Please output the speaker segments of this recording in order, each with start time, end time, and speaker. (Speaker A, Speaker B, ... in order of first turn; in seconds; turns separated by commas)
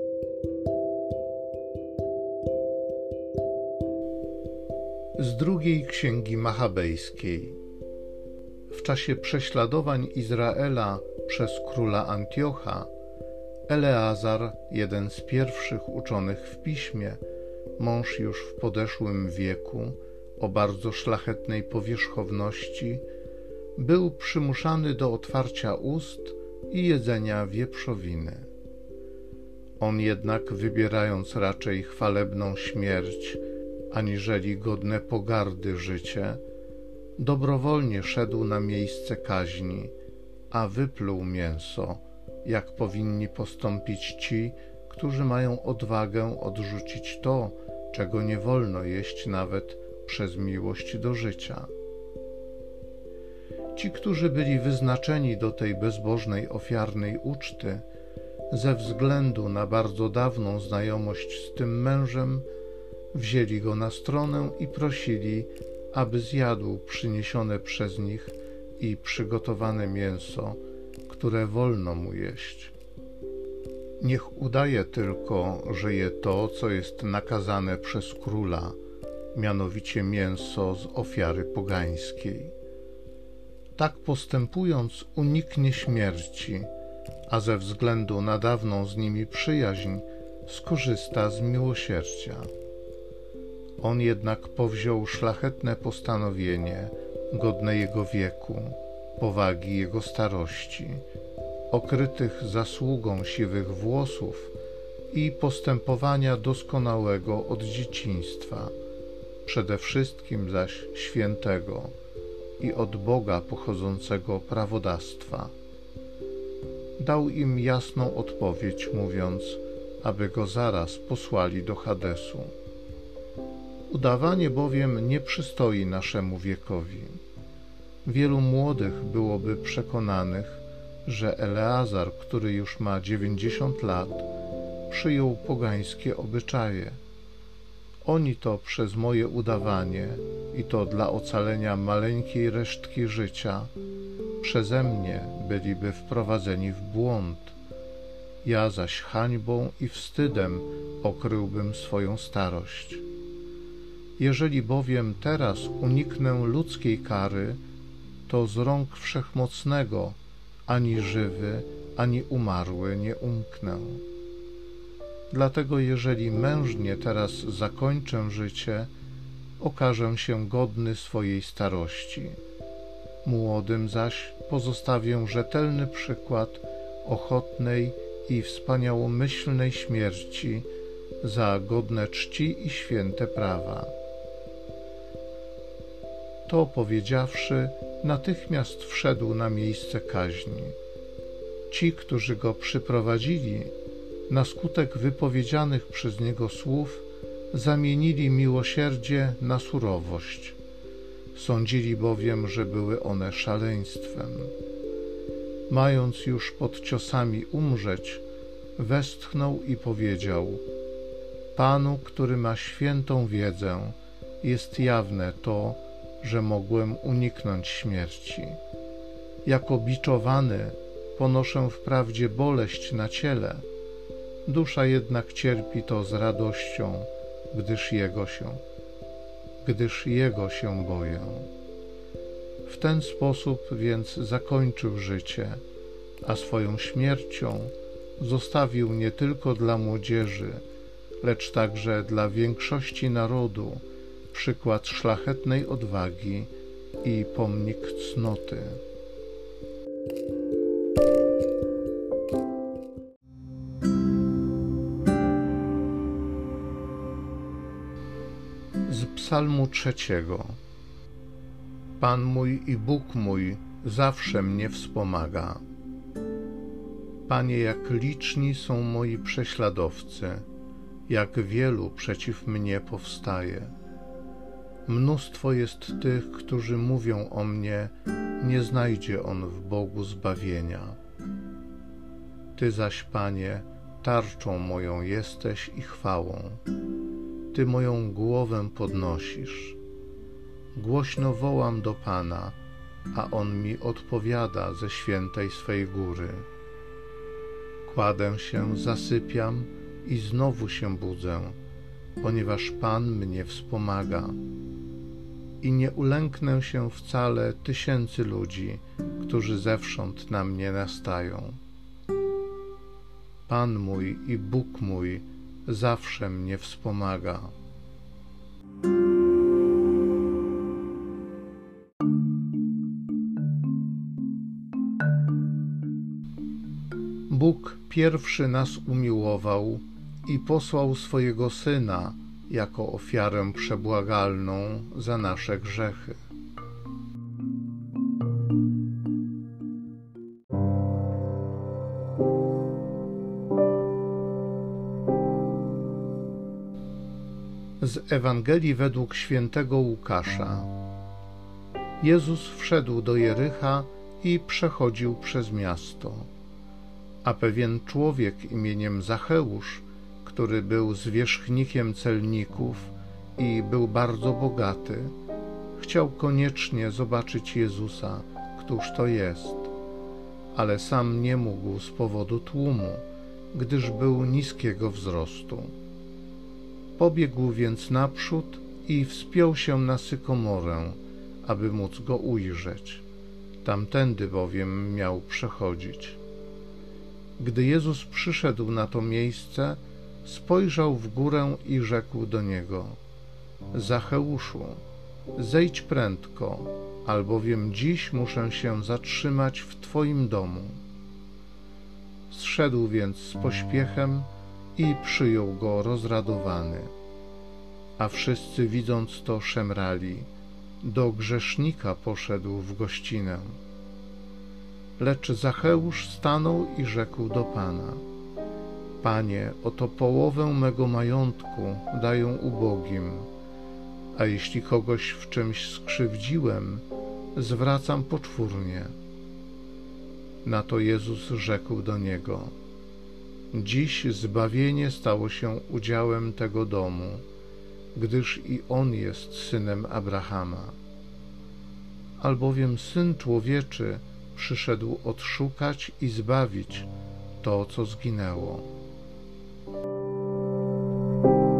Speaker A: 5.2-7.6, Speaker A: 8.7-12.9, Speaker A: 13.7-17.2, Speaker A: 17.8-23.0, Speaker A: 23.8-28.5, Speaker A: 29.8-36.4, Speaker A: 37.2-39.9, Speaker A: 40.5-51.7, Speaker A: 53.7-57.9, Speaker A: 58.5-62.5, Speaker A: 63.1-72.7, Speaker A: 74.0-78.8, Speaker A: 79.3-82.5, Speaker A: 83.7-86.7, Speaker A: 87.3-92.5, Speaker A: 93.8-101.0, Speaker A: 101.7-104.5, Speaker A: 105.1-108.7, Speaker A: 109.4-111.9, Speaker A: 112.6-115.5, Speaker A: 117.0-122.5, Speaker A: 123.9-127.2, Speaker A: 128.0-134.3, Speaker A: 134.9-137.0, Speaker A: 138.0-143.7, Speaker A: 144.4-147.6, Speaker A: 148.4-153.0, Speaker A: 154.2-157.6, Speaker A: 158.3-164.0, Speaker A: 165.3-168.9, Speaker A: 169.6-172.4, Speaker A: 173.2-180.7, Speaker A: 181.2-183.9, Speaker A: 186.4-190.8, Speaker A: 191.7-193.7, Speaker A: 194.3-200.6, Speaker A: 201.3-204.5, Speaker A: 205.7-208.2, Speaker A: 208.8-210.6, Speaker A: 211.5-218.6, Speaker A: 219.4-223.7, Speaker A: 224.4-228.6, Speaker A: 229.6-231.5, Speaker A: 232.6-235.6, Speaker A: 236.2-240.6, Speaker A: 241.2-248.8, Speaker A: 258.9-260.6, Speaker A: 262.0-265.6, Speaker A: 267.3-270.4, Speaker A: 271.1-273.7, Speaker A: 274.9-281.0, Speaker A: 282.6-286.6, Speaker A: 287.5-289.8, Speaker A: 290.7-292.6, Speaker A: 293.1-296.5, Speaker A: 297.8-301.6, Speaker A: 302.2-304.4, Speaker A: 305.6-311.6, Speaker A: 313.5-317.5, Speaker A: 327.3-336.2, Speaker A: 347.8-350.7, Speaker A: 352.0-356.3, Speaker A: 357.2-365.1, Speaker A: 365.8-369.7, Speaker A: 370.5-375.7, Speaker A: 377.0-383.1, Speaker A: 383.6-386.2, Speaker A: 387.4-393.0, Speaker A: 393.7-394.8, Speaker A: 395.3-400.8, Speaker A: 402.3-406.9, Speaker A: 408.0-410.3, Speaker A: 410.8-413.6, Speaker A: 415.0-418.0, Speaker A: 419.0-423.3, Speaker A: 424.1-428.9, Speaker A: 430.4-432.5, Speaker A: 433.5-437.2, Speaker A: 437.9-440.8, Speaker A: 442.2-446.9, Speaker A: 447.4-448.7